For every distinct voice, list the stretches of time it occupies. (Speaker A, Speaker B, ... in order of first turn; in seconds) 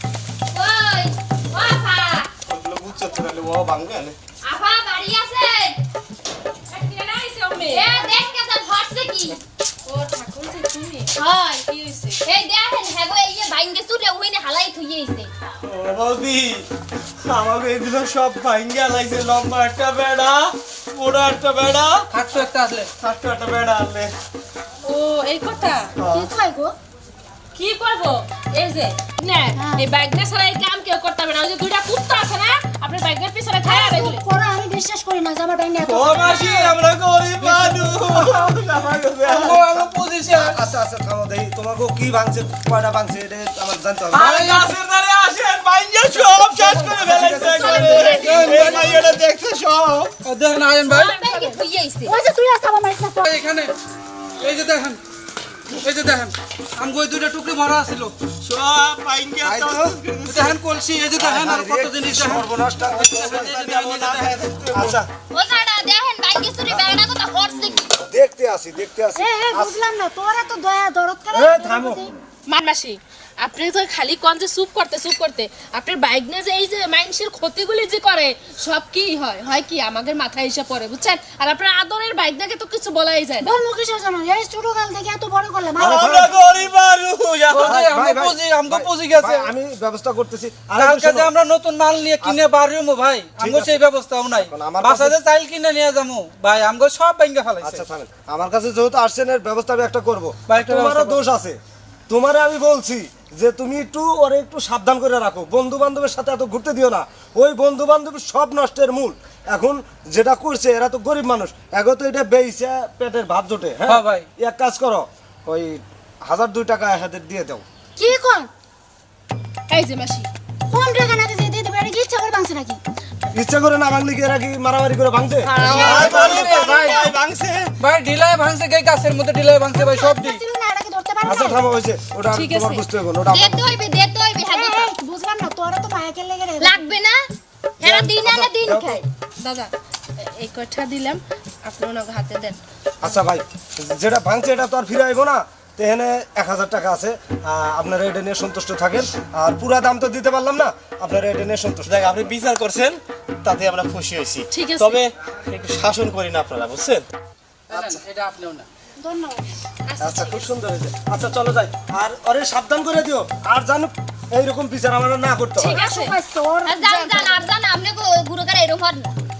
Speaker A: 0.5-2.3, 4.4-5.8, 7.7-9.4, 11.1-11.7, 12.2-15.3, 48.0-48.3, 51.0-52.1, 65.3-67.8, 133.3-134.9, 136.6-137.2, 137.8-139.0, 166.7-169.1
Speaker B: 2.5-4.2, 15.6-16.6, 17.2-22.0, 23.0-24.1, 26.0-26.3, 35.7-39.6, 44.1-50.1, 58.4-60.6, 63.2-65.1, 85.8-87.8, 125.6-127.7, 151.8-157.0
Speaker C: 6.7-8.1, 9.8-12.2, 24.8-25.9, 27.5-34.2, 50.9-51.6, 72.5-83.5, 119.7-120.3, 132.3-132.8, 139.4-142.6, 154.5-155.0, 159.9-160.5, 165.6-166.1
Speaker D: 22.1-22.9, 39.3-40.6, 44.1-44.7, 48.0-48.9, 50.2-51.1, 53.2-53.8, 54.4-55.0, 55.8-58.1, 60.2-64.3, 87.5-89.5, 90.8-97.8, 100.5-101.2, 113.9-114.3, 125.7-127.0, 127.8-130.4, 157.7-158.7
Speaker E: 26.1-26.7, 33.7-36.1, 52.0-53.2, 69.3-72.0, 83.5-86.1, 118.0-118.4, 120.7-122.8, 125.8-127.0, 129.7-131.4, 134.4-136.7, 159.0-159.4, 165.8-167.4
Speaker F: 39.2-44.3, 46.5-49.1, 59.4-60.0, 61.2-63.8, 64.7-65.0, 66.6-67.0, 68.0-69.8, 71.3-72.1, 85.8-86.2, 87.6-91.3, 93.4-93.8, 94.4-95.2, 97.6-101.6, 102.1-117.6, 123.3-126.2, 131.2-133.7, 137.8-139.0, 143.0-152.3, 157.7-158.0, 160.0-165.8